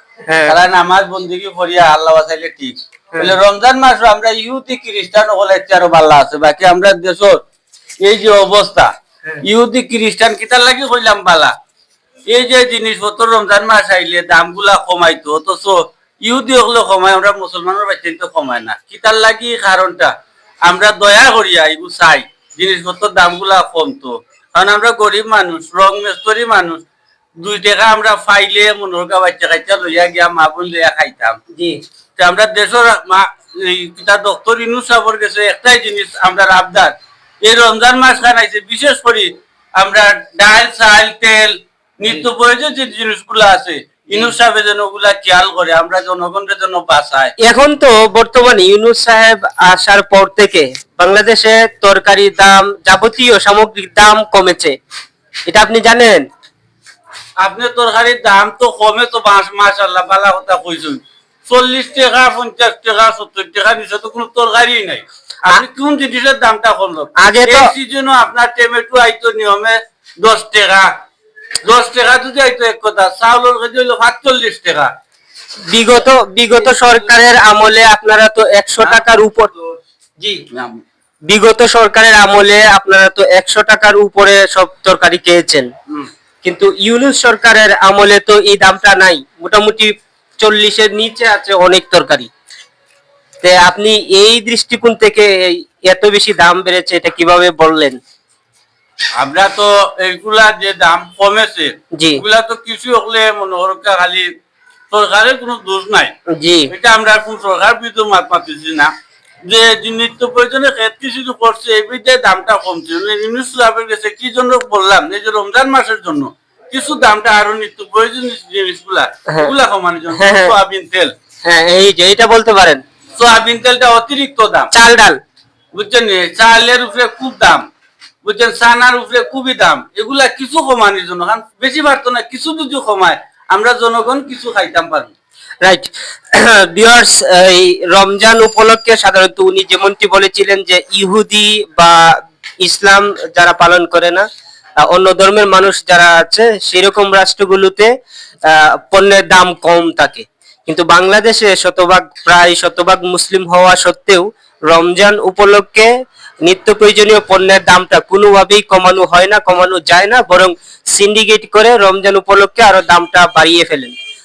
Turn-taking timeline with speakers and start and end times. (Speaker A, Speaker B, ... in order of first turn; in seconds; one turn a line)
Speaker A: 0.3-0.6
Speaker B: 0.5-7.4
Speaker B: 8.0-8.9
Speaker B: 9.4-11.5
Speaker B: 12.3-20.1
Speaker B: 20.6-26.8
Speaker B: 27.4-31.4
Speaker A: 31.6-31.8
Speaker B: 32.2-47.3
Speaker A: 47.4-54.7
Speaker A: 55.5-56.2
Speaker B: 57.4-70.9
Speaker A: 67.2-67.7
Speaker B: 71.6-74.9
Speaker A: 75.7-79.5
Speaker B: 80.2-80.8
Speaker A: 81.3-85.7
Speaker A: 86.4-92.3
Speaker A: 93.4-98.0
Speaker B: 99.2-104.3
Speaker A: 101.9-102.2
Speaker B: 104.9-106.1
Speaker A: 106.3-106.7
Speaker B: 106.7-108.9
Speaker B: 109.5-121.1
Speaker A: 120.2-120.5
Speaker A: 121.4-122.8
Speaker B: 123.2-124.7
Speaker A: 124.7-125.2
Speaker B: 125.8-127.6
Speaker B: 128.2-135.1
Speaker A: 135.6-144.2
Speaker A: 144.8-147.9
Speaker A: 148.5-155.9
Speaker A: 156.4-164.0